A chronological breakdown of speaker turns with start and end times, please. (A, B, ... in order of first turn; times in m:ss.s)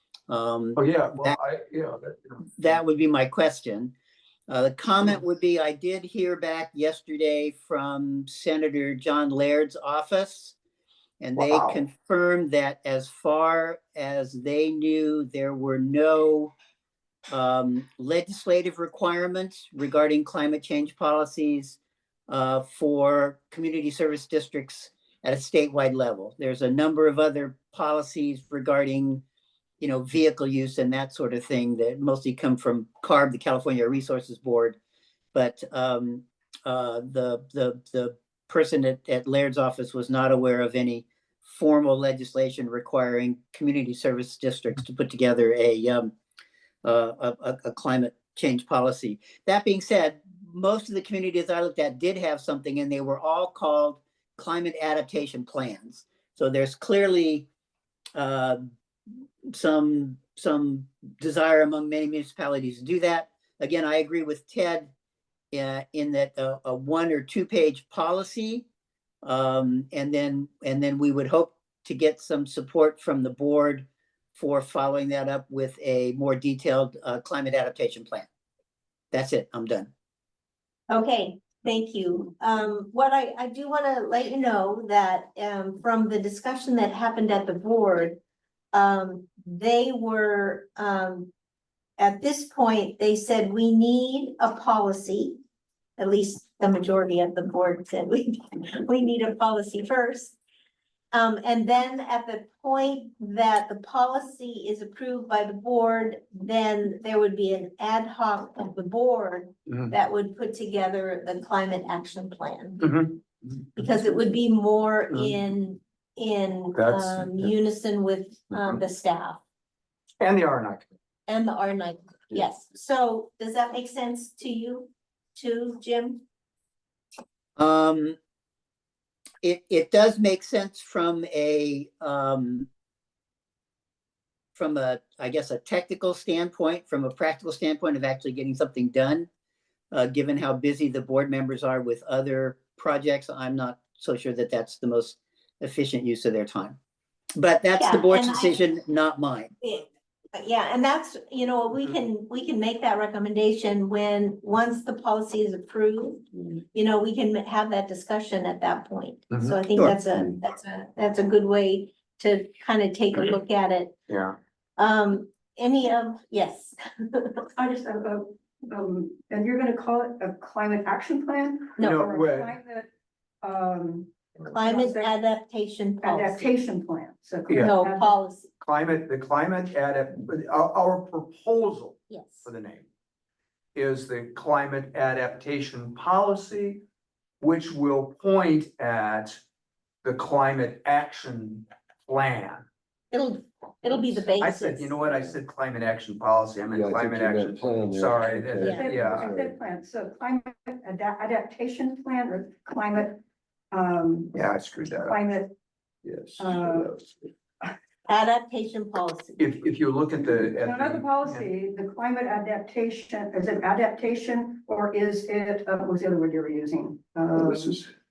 0:00.3-0:01.4 A
0:00.8-0:02.8 B
0:02.4-0:03.9 A
0:04.5-0:10.6 A
0:11.2-0:16.5 A
0:11.4-0:11.8 B
0:17.3-0:21.8 A
0:22.3-0:29.2 A
0:29.8-0:34.8 A
0:35.3-0:46.1 A
0:46.8-0:57.5 A
0:58.2-0:58.7 A
0:59.5-1:04.9 A
1:05.5-1:08.6 A
1:09.2-1:18.3 A
1:19.1-1:19.9 A
1:20.9-1:28.2 C
1:28.7-1:31.3 C
1:32.0-1:35.4 C
1:36.0-1:40.4 C
1:41.1-1:52.8 C
1:49.7-1:49.9 B
1:52.8-1:53.2 B
1:53.7-1:59.4 C
1:56.7-1:57.5 B
1:58.6-1:58.8 B
2:00.2-2:00.9 B
2:01.3-2:06.2 C
2:07.6-2:08.2 A
2:09.4-2:12.7 A
2:14.5-2:19.3 A
2:19.9-2:26.8 A
2:27.4-2:29.5 A
2:27.8-2:28.6 C
2:29.6-2:44.0 C
2:39.3-2:39.6 B
2:44.1-2:44.4 B
2:44.8-2:47.4 C
2:47.6-2:52.9 D
2:51.8-2:52.0 C
2:51.8-2:52.5 B
2:53.4-2:55.1 D
2:54.5-2:56.5 C
2:56.0-2:58.1 D
2:57.6-2:58.5 C
2:58.6-3:02.9 B
3:02.1-3:02.5 C
3:03.7-3:06.8 B
3:07.4-3:09.4 B
3:10.0-3:12.7 B
3:13.1-3:15.2 C
3:14.3-3:19.3 B
3:16.7-3:19.6 E
3:18.6-3:24.3 D
3:24.3-3:25.2 B
3:25.1-3:25.5 D
3:26.0-3:26.6 E
3:26.4-3:26.9 D
3:28.1-3:29.4 C
3:29.4-3:31.5 B
3:30.5-3:37.8 D
3:37.3-3:37.9 E